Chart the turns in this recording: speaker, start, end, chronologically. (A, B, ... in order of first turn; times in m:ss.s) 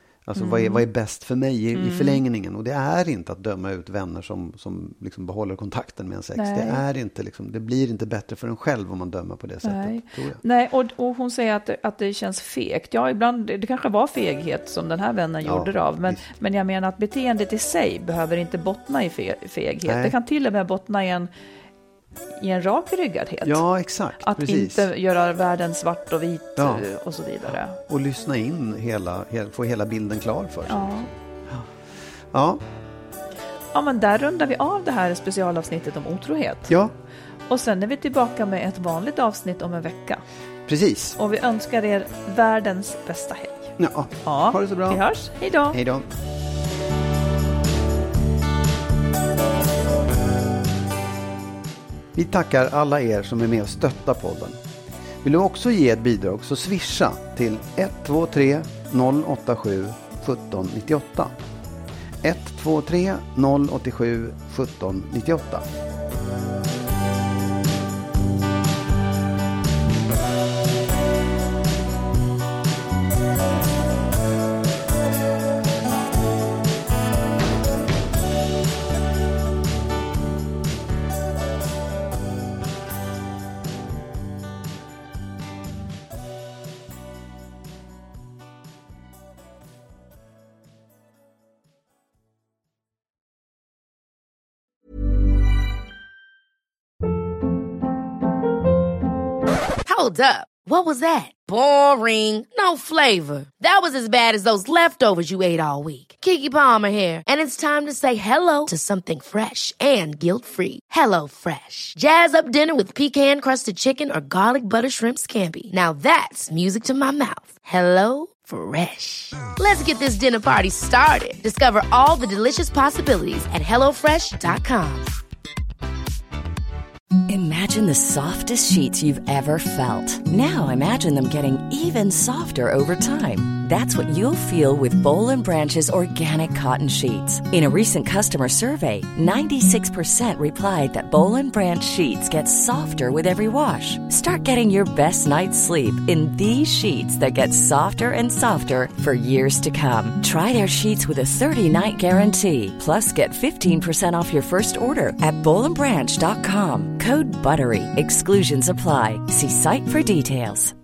0:00.2-0:10.4 A
0:00.3-0:00.8 B
0:01.7-0:02.2 B
0:06.3-0:06.8 B
0:09.6-0:21.3 B
0:15.4-0:16.2 A
0:19.8-0:20.1 A
0:22.4-0:23.6 B
0:23.4-0:24.9 A
0:24.2-0:27.8 B
0:26.6-0:26.8 A
0:27.8-0:31.7 A
0:30.7-0:31.1 B
0:32.3-0:32.6 A
0:33.7-0:36.7 B
0:37.5-0:40.2 B
0:40.7-0:41.2 A
0:41.2-0:43.7 B
0:43.8-0:45.0 A
0:44.2-0:45.8 B
0:45.7-0:46.1 A
0:52.1-0:54.6 A
0:55.2-1:01.3 A
1:02.2-1:05.6 A
1:39.8-2:05.1 C
2:07.3-2:40.7 D